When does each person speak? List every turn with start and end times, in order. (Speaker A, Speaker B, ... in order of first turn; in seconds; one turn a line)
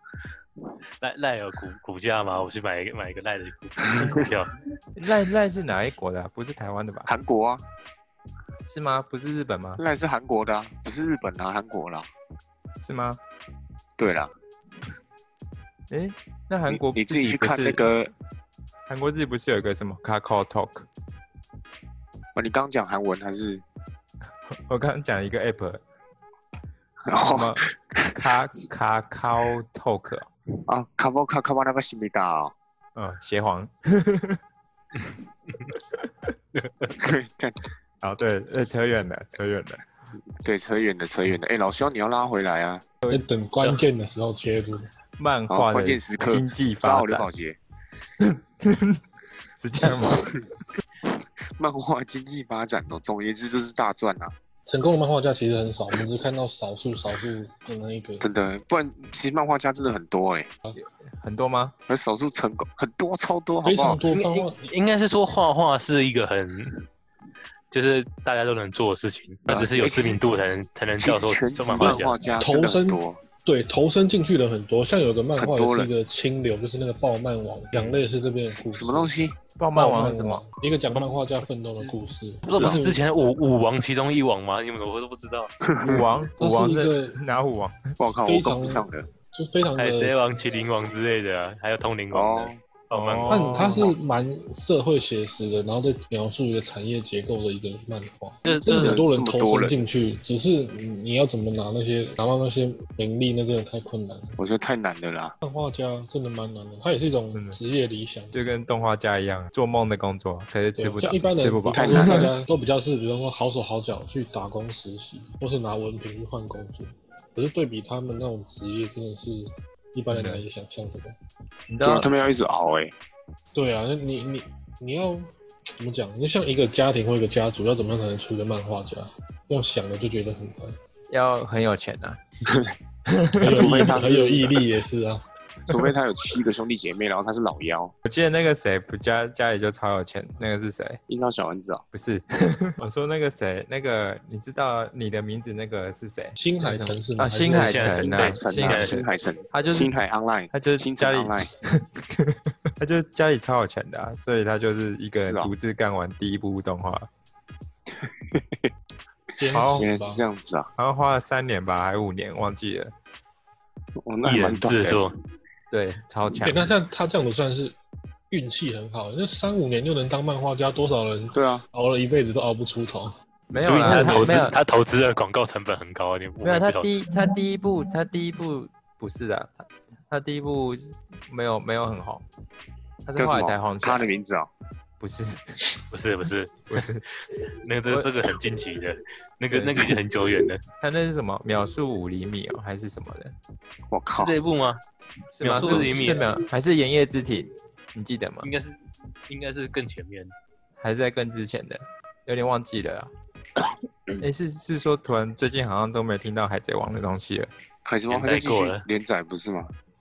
Speaker A: 1.0-4.5
Speaker B: 3.8-4.3
Speaker C: 3.9-4.2
Speaker C: 5.0-7.1
Speaker B: 7.0-7.6
Speaker C: 8.7-9.8
Speaker B: 9.8-12.1
Speaker C: 12.8-13.2
Speaker B: 14.0-14.3
Speaker C: 15.9-17.8
Speaker B: 16.7-18.1
Speaker C: 18.9-20.9
Speaker B: 22.3-23.6
Speaker C: 24.5-25.8
Speaker B: 27.1-28.1
Speaker C: 27.2-30.3
Speaker B: 30.7-32.5
Speaker C: 33.0-34.4
Speaker A: 34.9-35.8
Speaker A: 36.5-36.9
Speaker B: 37.0-37.6
Speaker C: 38.0-39.8
Speaker B: 40.4-42.8
Speaker D: 43.1-44.9
Speaker C: 45.2-47.3
Speaker B: 45.5-47.6
Speaker C: 48.2-49.0
Speaker C: 49.6-50.3
Speaker B: 50.0-50.4
Speaker B: 51.6-54.3
Speaker D: 54.7-58.2
Speaker B: 58.2-60.5
Speaker C: 60.8-61.7
Speaker B: 61.9-64.0
Speaker D: 63.6-64.6
Speaker A: 64.1-66.8
Speaker A: 67.7-72.2
Speaker B: 69.5-70.2
Speaker B: 71.0-73.2
Speaker D: 71.8-79.1
Speaker B: 75.3-75.9
Speaker B: 78.5-79.4
Speaker C: 79.6-80.4
Speaker D: 79.7-83.0
Speaker A: 81.8-85.5
Speaker B: 82.5-82.8
Speaker B: 85.6-86.0
Speaker C: 85.8-87.9
Speaker D: 86.4-87.2
Speaker B: 88.0-89.1
Speaker D: 88.2-90.1
Speaker A: 89.8-93.8
Speaker B: 92.1-92.6
Speaker C: 92.9-93.9
Speaker D: 93.3-104.4
Speaker A: 98.4-99.0
Speaker B: 98.6-99.8
Speaker B: 104.4-105.3
Speaker D: 105.4-108.3
Speaker C: 107.3-107.6
Speaker C: 108.3-112.3
Speaker D: 110.8-121.2
Speaker B: 111.7-112.3
Speaker C: 120.1-120.4
Speaker C: 121.7-122.1
Speaker B: 121.8-122.9
Speaker D: 123.5-130.8
Speaker C: 131.1-132.2
Speaker C: 133.1-134.1
Speaker B: 133.4-134.6
Speaker D: 133.4-135.2
Speaker B: 135.7-137.9
Speaker C: 138.1-141.0
Speaker B: 141.1-141.8
Speaker C: 141.9-149.9
Speaker D: 146.4-148.0
Speaker A: 147.5-149.0
Speaker B: 147.9-151.5
Speaker C: 150.5-157.1
Speaker B: 155.2-155.5
Speaker B: 157.9-158.7
Speaker D: 159.4-160.2
Speaker C: 159.5-159.9
Speaker B: 159.8-160.7
Speaker C: 160.8-162.9
Speaker B: 164.0-165.1
Speaker A: 164.2-165.1
Speaker C: 165.7-166.7
Speaker D: 166.4-167.7
Speaker D: 168.3-173.1
Speaker B: 171.3-171.6
Speaker C: 173.5-174.6
Speaker A: 173.6-176.9
Speaker C: 176.4-182.2
Speaker C: 183.0-184.1
Speaker B: 183.2-184.5
Speaker C: 185.0-185.6
Speaker A: 185.9-186.8
Speaker C: 186.7-187.0
Speaker A: 187.6-190.6
Speaker C: 189.5-189.9
Speaker C: 190.8-193.3
Speaker B: 193.9-194.3
Speaker A: 194.2-194.8
Speaker C: 195.3-198.5
Speaker A: 195.4-196.2
Speaker B: 195.5-196.1
Speaker A: 198.4-198.8
Speaker A: 199.3-200.3
Speaker C: 200.8-203.1
Speaker B: 203.6-204.2
Speaker C: 204.2-207.5
Speaker B: 207.8-209.7
Speaker A: 208.1-208.8